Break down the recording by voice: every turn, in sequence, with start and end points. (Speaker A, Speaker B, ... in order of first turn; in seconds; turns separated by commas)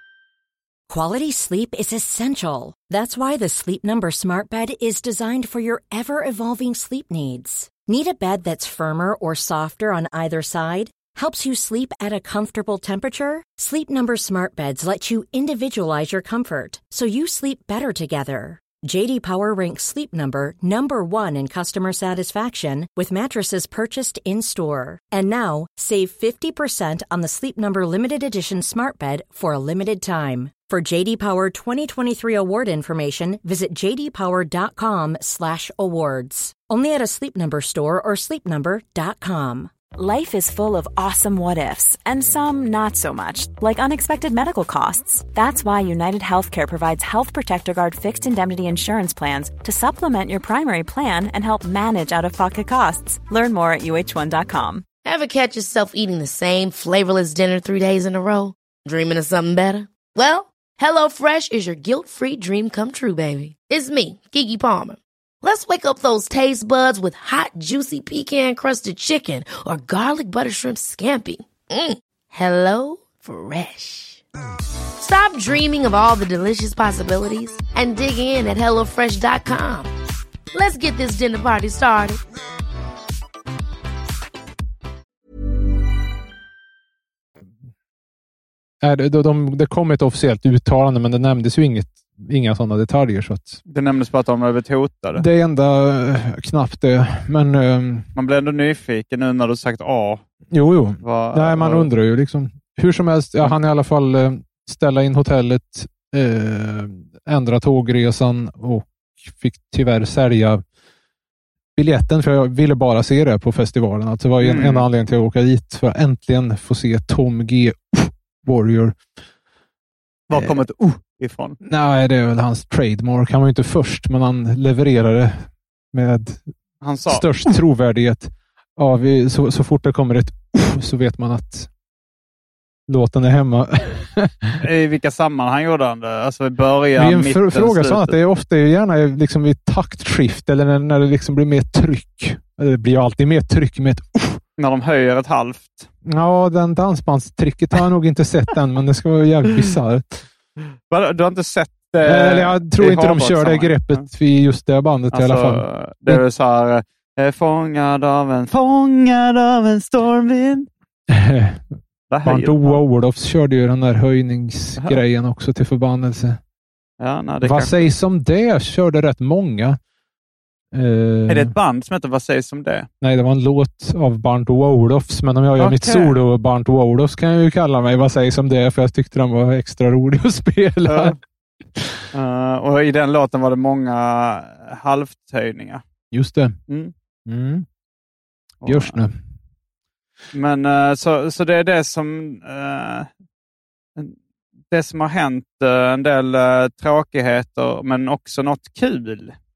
Speaker A: 0.9-39.7, Speaker B: 40.0-54.8, Speaker C: 55.0-74.2, Speaker C: 75.0-79.9, Speaker C: 80.5-82.2, Speaker D: 88.8-93.6, Speaker E: 93.7-95.2, Speaker D: 95.1-98.0, Speaker E: 98.1-100.2, Speaker D: 100.5-110.6, Speaker E: 101.0-101.9, Speaker D: 111.8-119.0, Speaker E: 114.4-114.9, Speaker E: 120.3-121.6, Speaker D: 120.3-120.6, Speaker D: 121.6-126.4, Speaker E: 126.8-127.5, Speaker D: 127.0-131.7, Speaker D: 132.9-134.6, Speaker E: 134.6-138.1, Speaker D: 137.0-144.4, Speaker E: 144.6-145.9, Speaker D: 146.0-150.2, Speaker E: 150.9-154.1, Speaker D: 152.0-156.2, Speaker E: 155.1-160.7, Speaker D: 161.1-161.6, Speaker E: 162.1-162.8, Speaker D: 162.2-166.4, Speaker E: 167.0-167.9, Speaker D: 167.4-169.8, Speaker D: 170.7-171.5, Speaker E: 171.3-172.9, Speaker D: 173.0-181.2, Speaker E: 175.6-176.1, Speaker E: 180.8-181.2, Speaker E: 182.1-185.8, Speaker D: 186.1-186.6, Speaker E: 186.7-186.9, Speaker D: 187.3-187.7, Speaker E: 188.6-189.0, Speaker D: 188.7-189.1, Speaker E: 190.3-193.1, Speaker E: 194.7-199.3